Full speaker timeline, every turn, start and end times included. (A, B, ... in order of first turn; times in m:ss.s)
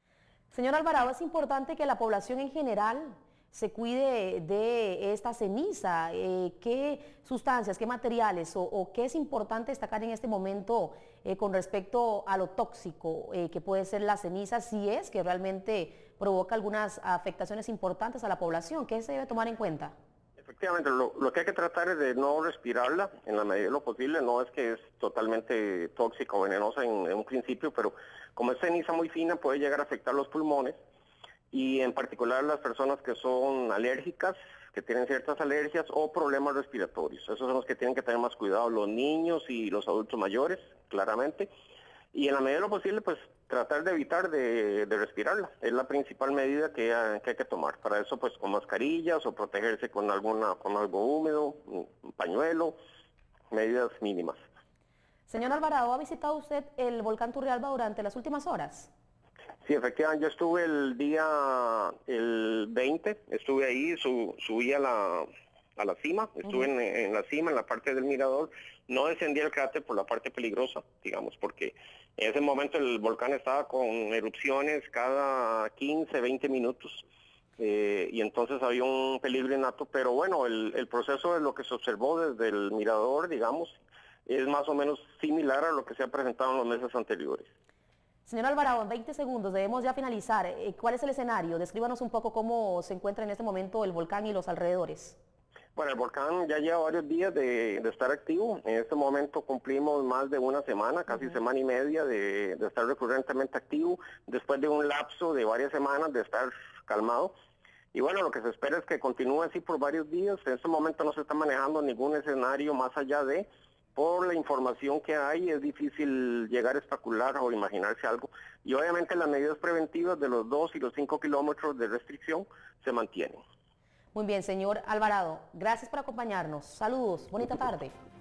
0:00.5-0:19.9 A
0:20.4-0:30.8 B
0:31.5-0:41.5 B
0:42.1-0:52.8 B
0:53.5-0:54.4 B
0:55.3-0:58.9 A
0:59.6-1:17.0 B
1:17.6-1:27.5 B
1:28.2-1:35.2 A
1:35.8-1:47.3 B
1:47.9-2:03.4 B
2:04.1-2:07.9 A